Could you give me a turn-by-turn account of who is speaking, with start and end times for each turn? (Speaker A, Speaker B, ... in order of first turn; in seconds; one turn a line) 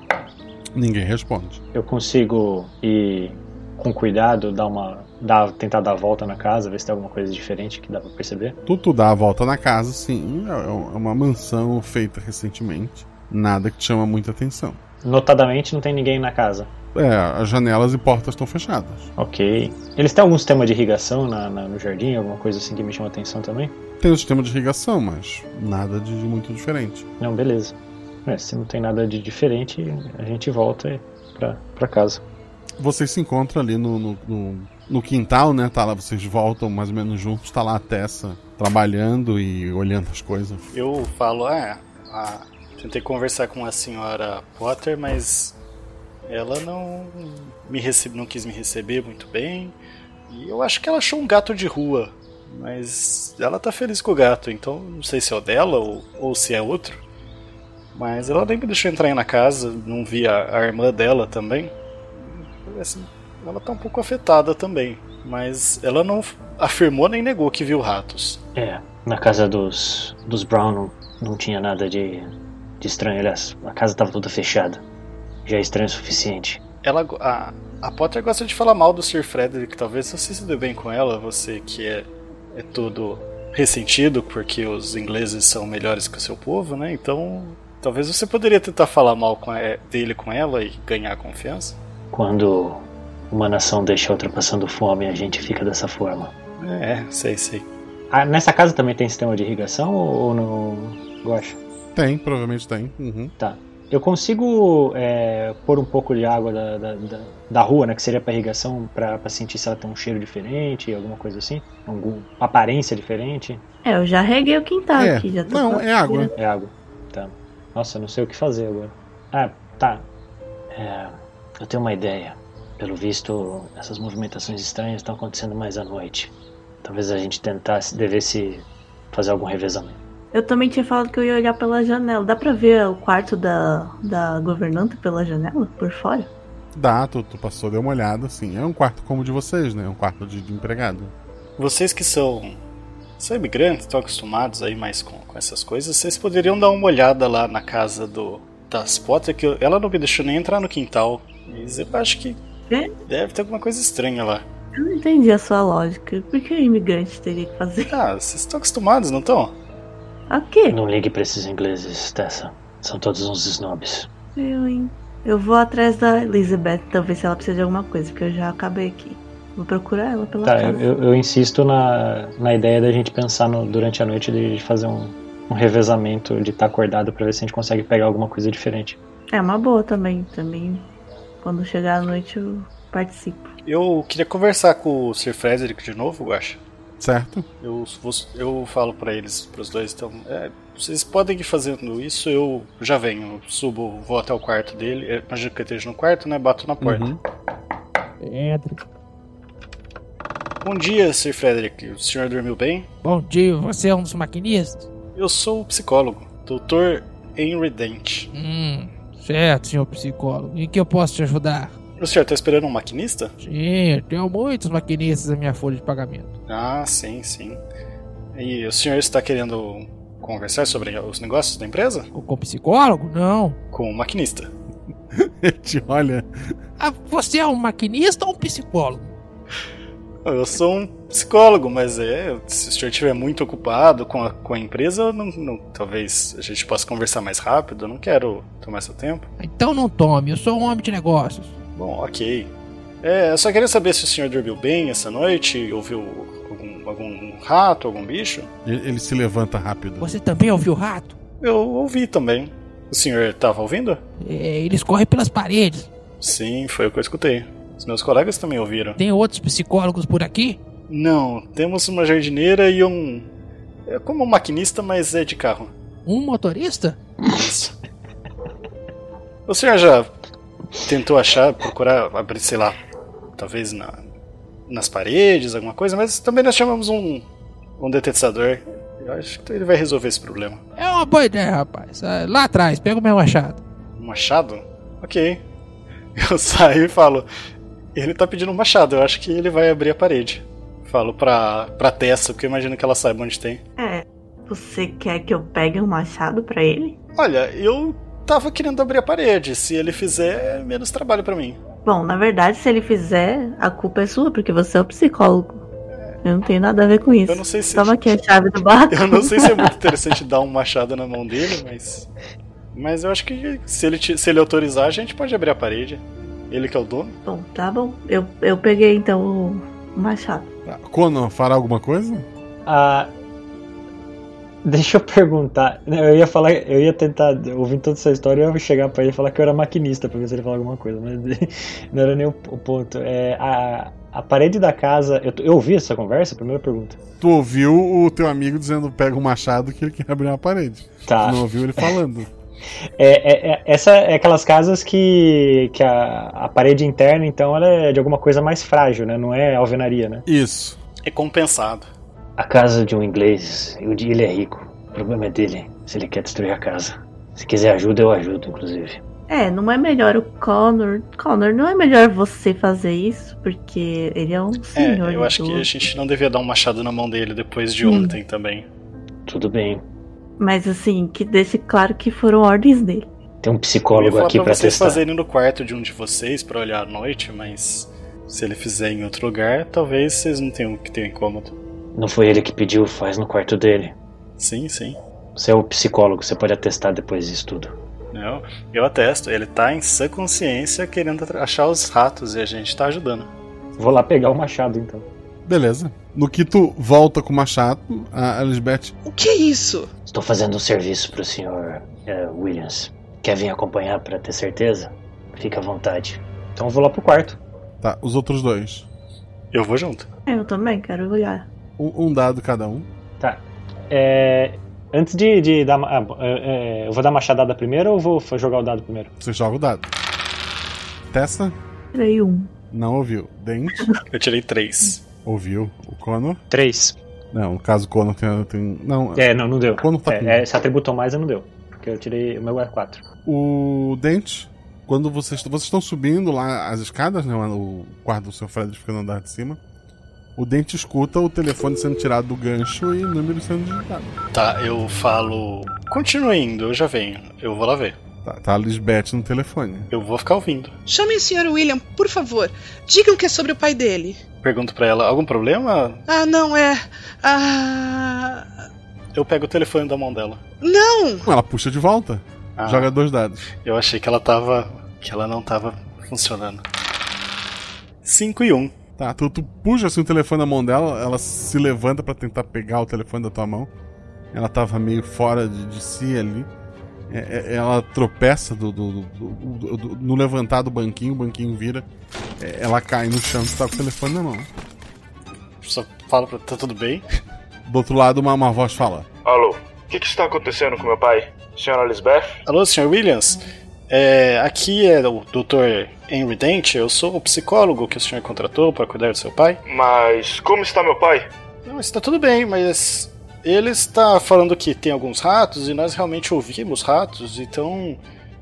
Speaker A: 0.7-1.6
Speaker B: 1.7-8.6
Speaker A: 8.7-14.8
Speaker B: 15.0-16.7
Speaker A: 16.9-19.1
Speaker B: 19.2-23.7
Speaker A: 24.0-27.1
Speaker B: 27.2-32.2
Speaker A: 32.8-40.6
Speaker C: 40.7-45.5
Speaker C: 46.2-49.8
Speaker C: 50.3-57.0
Speaker C: 57.9-68.4
Speaker B: 68.5-74.8
Speaker B: 75.5-76.6
Speaker C: 76.8-91.8
Speaker B: 92.1-96.3
Speaker C: 96.6-97.7
Speaker B: 98.1-101.6
Speaker A: 101.9-103.3
Speaker B: 103.4-113.6
Speaker D: 113.8-116.3
Speaker A: 114.9-116.3
Speaker B: 116.3-120.0
Speaker B: 120.7-126.3
Speaker B: 126.8-130.0
Speaker D: 130.3-136.3
Speaker A: 136.7-141.1
Speaker C: 141.6-142.6
Speaker C: 143.2-152.4
Speaker C: 153.1-154.4
Speaker D: 154.7-157.9
Speaker C: 157.9-159.5
Speaker D: 160.3-160.8
Speaker B: 160.7-164.1
Speaker D: 164.3-170.8
Speaker B: 170.4-179.0
Speaker D: 179.3-180.9
Speaker D: 181.4-183.5
Speaker C: 183.6-186.6
Speaker A: 187.0-187.5
Speaker C: 187.6-197.1
Speaker A: 196.8-197.2
Speaker E: 198.2-198.8
Speaker C: 200.6-202.9
Speaker E: 203.0-204.9
Speaker C: 205.2-208.3
Speaker E: 208.3-211.8
Speaker C: 212.0-213.3
Speaker E: 213.4-216.3
Speaker C: 216.5-217.6
Speaker C: 218.3-222.1
Speaker E: 222.1-223.6
Speaker C: 223.7-224.5
Speaker A: 225.1-226.5
Speaker E: 226.8-229.1
Speaker C: 230.2-239.2
Speaker E: 239.4-241.5
Speaker C: 241.8-242.5
Speaker C: 243.0-248.5
Speaker A: 248.6-250.1
Speaker E: 250.0-251.2
Speaker C: 251.4-254.0
Speaker E: 254.2-255.9
Speaker C: 256.2-259.0
Speaker E: 259.0-260.6
Speaker C: 260.9-263.3
Speaker C: 263.9-265.7
Speaker E: 266.1-267.0
Speaker C: 267.2-267.7
Speaker C: 269.5-270.1
Speaker C: 270.8-272.8
Speaker C: 273.4-274.0
Speaker C: 274.7-277.2
Speaker C: 277.8-280.6
Speaker E: 280.8-283.6
Speaker C: 284.0-285.4
Speaker C: 286.1-287.2
Speaker C: 287.9-293.6
Speaker D: 293.8-297.0
Speaker C: 297.2-301.6
Speaker D: 301.8-305.6
Speaker D: 306.2-309.7
Speaker C: 307.3-307.9
Speaker C: 308.9-312.1
Speaker C: 312.7-317.2
Speaker D: 317.2-320.5
Speaker A: 320.6-322.2
Speaker B: 322.6-323.1
Speaker B: 324.6-337.0
Speaker A: 337.2-342.3
Speaker B: 341.1-341.9
Speaker B: 343.0-350.2
Speaker A: 350.2-350.8
Speaker C: 351.1-351.9
Speaker B: 352.4-359.0
Speaker D: 359.3-365.7
Speaker C: 364.7-368.6
Speaker D: 367.8-368.2
Speaker B: 369.3-369.8
Speaker D: 370.4-373.1
Speaker B: 373.4-375.0
Speaker C: 373.9-381.5
Speaker B: 381.9-383.9
Speaker C: 384.4-385.0
Speaker B: 385.4-387.7
Speaker C: 388.1-393.3
Speaker B: 393.8-395.1
Speaker A: 395.4-398.9
Speaker F: 399.0-399.9
Speaker B: 400.1-407.4
Speaker A: 407.8-408.9
Speaker C: 409.5-410.1
Speaker D: 410.3-411.5
Speaker A: 411.8-412.9
Speaker B: 413.2-419.1
Speaker A: 419.2-419.9
Speaker A: 421.1-421.6
Speaker D: 421.9-422.5
Speaker A: 422.7-423.9
Speaker C: 424.1-425.0
Speaker A: 425.2-426.4
Speaker B: 426.5-427.0
Speaker A: 427.3-430.4
Speaker B: 429.2-433.0
Speaker A: 433.2-439.6
Speaker A: 440.4-444.1
Speaker C: 444.3-447.9
Speaker A: 448.2-449.9
Speaker C: 449.9-450.8
Speaker F: 450.9-454.2
Speaker C: 454.4-456.0
Speaker F: 456.1-458.4
Speaker C: 459.1-460.4
Speaker F: 460.6-461.3
Speaker A: 461.2-463.4
Speaker C: 462.6-462.9
Speaker C: 463.6-466.6
Speaker C: 468.0-468.7
Speaker A: 469.0-473.7
Speaker A: 474.3-476.5
Speaker A: 477.1-481.8
Speaker A: 482.4-484.5
Speaker C: 485.6-487.0
Speaker A: 487.6-489.1
Speaker G: 489.2-492.4
Speaker C: 492.4-499.6
Speaker G: 499.6-501.3
Speaker C: 501.6-508.0